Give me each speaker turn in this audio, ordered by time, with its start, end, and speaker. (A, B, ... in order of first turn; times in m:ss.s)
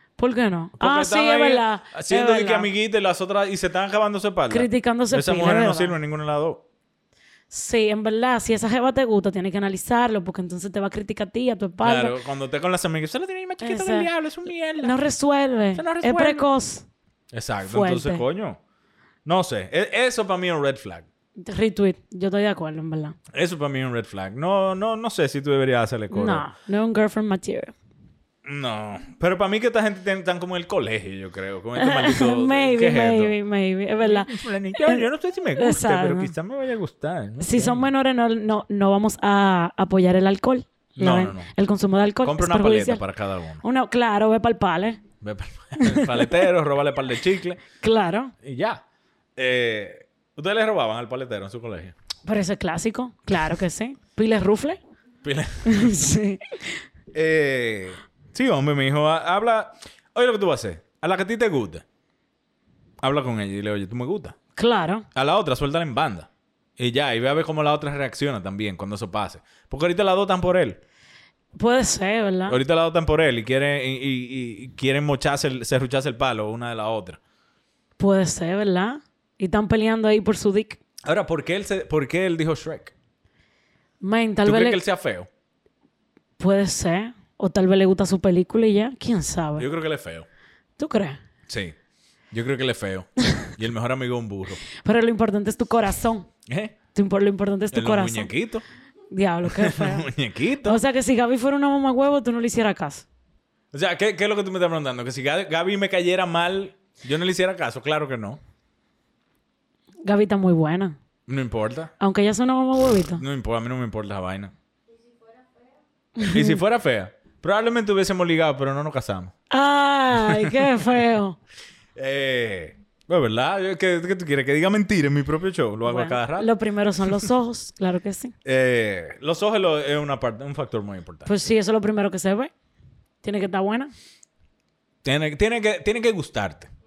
0:00.2-0:02.7 A
0:00.8-0:06.6 B
0:04.5-0:06.0 A
0:07.5-0:12.2 A
0:11.8-0:14.9 B
0:13.6-0:14.1 A
0:14.8-0:16.8 A
0:15.7-0:16.5 B
0:17.3-0:18.6 B
0:17.7-0:18.2 A
0:19.2-0:21.1 B
0:21.4-0:23.2 A
0:23.3-0:26.5 B
0:26.1-0:27.7 A
0:28.4-0:33.3 B
0:31.8-0:35.0 A
0:34.0-0:37.9 B
0:35.6-0:36.3 A
0:37.4-0:43.0 A
0:41.0-0:41.5 B
0:42.2-0:43.6 B
0:43.6-0:45.0 A
0:45.2-0:47.6 B
0:45.8-0:46.5 A
0:47.8-0:48.3 A
0:48.4-0:48.8 B
0:49.4-0:51.9 B
0:52.2-0:54.8 A
0:55.2-0:55.9 B
0:55.6-0:56.8 A
0:57.1-1:01.8 B
1:03.0-1:04.4 B
1:04.6-1:05.0 A
1:05.1-1:10.8 B
1:11.6-1:12.6 A
1:12.5-1:17.2 B
1:18.0-1:20.8 A
1:21.0-1:22.9 B
1:24.0-1:24.8 A
1:24.4-1:25.3 B
1:26.4-1:29.6 A
1:29.6-1:30.3 B
1:30.8-1:31.2 A
1:31.5-1:31.8 B
1:32.3-1:34.6 B
1:34.8-1:36.3 A
1:36.5-1:36.8 B
1:36.9-1:38.3 A
1:37.7-1:38.6 B
1:39.1-1:40.1 A
1:39.5-1:40.8 B
1:40.6-1:43.0 A
1:43.7-1:48.4 B
1:50.0-1:51.0 A
1:51.3-1:51.9 B
1:52.0-1:53.2 A
1:53.2-1:54.5 B
1:56.2-1:56.6 A
1:56.2-1:59.3 B
1:59.5-2:01.4 A
2:00.1-2:00.8 B
2:02.0-2:06.5 B
2:05.8-2:08.3 A
2:08.4-2:11.3 B
2:11.2-2:12.5 A
2:13.2-2:13.9 A
2:15.0-2:16.7 B